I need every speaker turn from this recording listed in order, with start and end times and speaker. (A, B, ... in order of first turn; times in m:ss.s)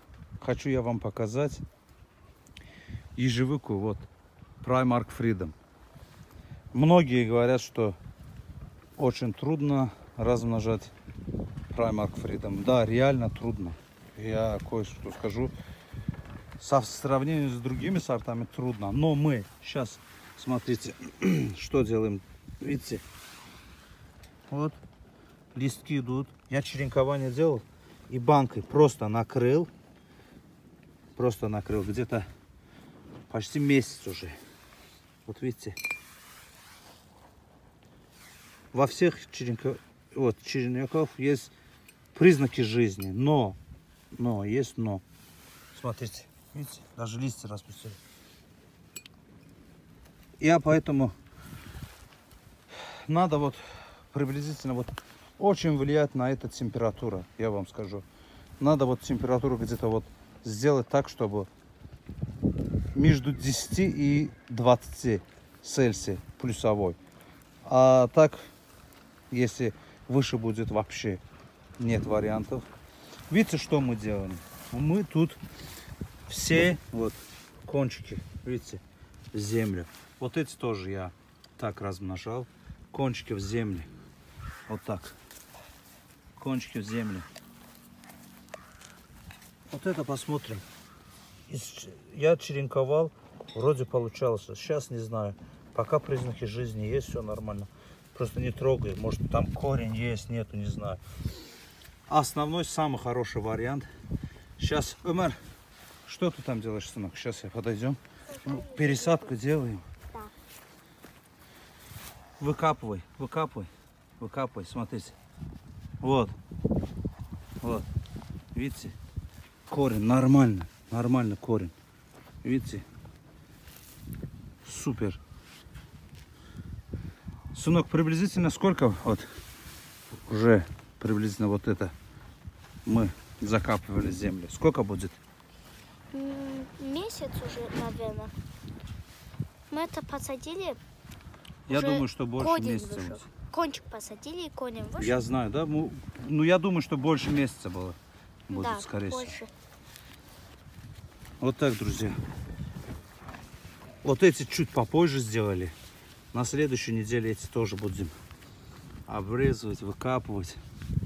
0:00.4-0:01.6 A
0:03.2-0:04.1 A
0:04.6-0:05.5 A
0:06.7-0:08.0 A
0:09.0-0:10.9 A
0:11.7-0:15.5 A
0:16.6-0:23.0 A
0:24.5-0:24.8 A
0:25.5-0:29.7 A
0:31.2-0:32.3 A
0:33.3-0:34.4 A
0:35.2-0:35.8 A
0:38.7-0:41.5 A
0:42.1-0:43.6 A
0:44.1-0:45.0 A
0:45.7-0:48.0 A
0:50.4-0:51.1 A
0:53.1-0:58.0 A
0:58.6-1:01.5 A
1:02.9-1:07.0 A
1:07.6-1:08.5 A
1:09.3-1:11.2 A
1:11.8-1:12.7 A
1:13.3-1:15.4 A
1:16.3-1:18.8 A
1:19.3-1:23.9 A
1:24.7-1:25.2 A
1:26.4-1:27.3 A
1:29.7-1:30.6 A
1:31.5-1:41.0 A
1:42.1-1:43.9 A
1:44.6-1:45.4 A
1:46.0-1:49.8 A
1:48.3-1:49.3 B
1:52.4-1:55.2 A
1:56.0-1:56.4 A
1:57.6-1:57.9 A
1:58.5-1:59.0 A
1:59.7-2:01.7 A
2:02.4-2:02.8 A
2:04.6-2:05.2 A
2:07.5-2:09.3 A
2:10.2-2:11.9 A
2:12.8-2:15.2 A
2:16.1-2:18.3 B
2:19.7-2:20.8 B
2:21.7-2:23.3 A
2:21.7-2:25.1 B
2:25.0-2:28.0 A
2:28.5-2:29.4 A
2:28.5-2:29.5 B
2:31.4-2:32.2 A
2:34.0-2:35.7 A
2:36.3-2:38.1 A
2:39.1-2:40.6 A